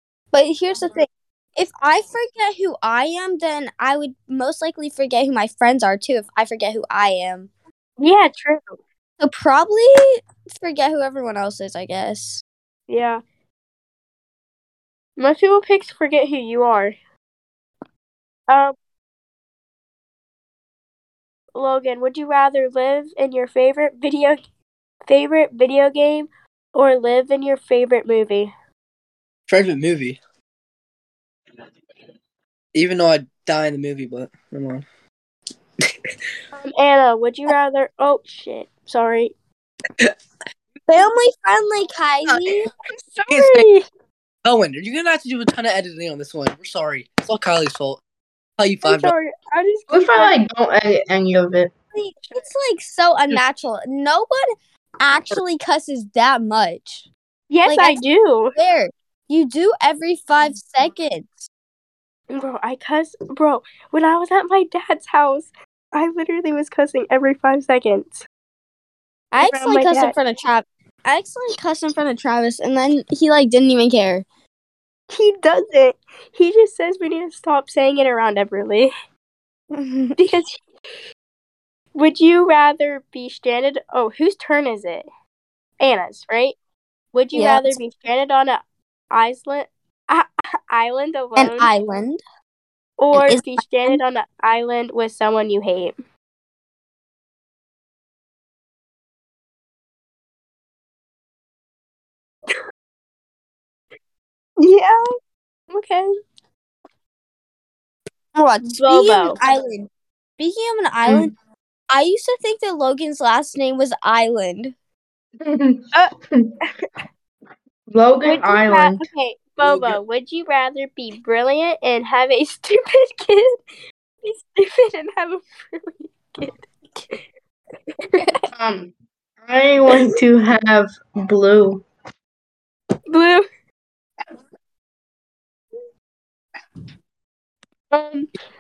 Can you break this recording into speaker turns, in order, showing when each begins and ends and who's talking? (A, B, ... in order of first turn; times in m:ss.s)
0:00.3-0:07.5 A
0:08.0-0:08.8 B
0:09.2-0:12.4 A
0:12.9-0:13.2 B
0:15.2-0:17.0 B
0:18.5-0:18.8 B
0:21.6-0:24.4 B
0:25.1-0:28.5 B
0:29.5-0:30.2 C
0:32.7-0:34.8 C
0:36.5-0:39.3 B
0:40.9-0:42.7 A
0:42.9-0:43.8 B
0:43.3-0:43.7 C
0:44.4-0:48.0 C
0:48.6-0:49.1 C
0:48.8-0:50.4 B
0:49.9-0:51.7 D
0:51.9-0:57.1 A
0:57.5-0:58.5 B
0:57.7-0:58.0 A
0:58.6-1:01.5 A
1:02.3-1:08.2 B
1:09.3-1:10.1 B
1:09.4-1:14.2 A
1:15.1-1:18.9 B
1:19.7-1:20.2 A
1:20.2-1:20.6 B
1:22.0-1:25.1 B
1:25.8-1:26.6 B
1:27.1-1:31.7 B
1:27.3-1:27.8 A
1:31.4-1:32.2 A
1:33.0-1:36.0 B
1:33.1-1:34.0 A
1:45.7-1:46.1 B
1:48.4-1:51.3 A
1:48.7-1:49.4 B
1:51.9-1:54.7 A
1:55.4-1:56.5 D
1:57.9-1:59.1 D
1:58.2-2:03.6 B
2:04.2-2:07.2 B
2:08.0-2:08.3 B
2:08.5-2:11.8 D
2:13.1-2:13.5 B
2:17.9-2:18.3 B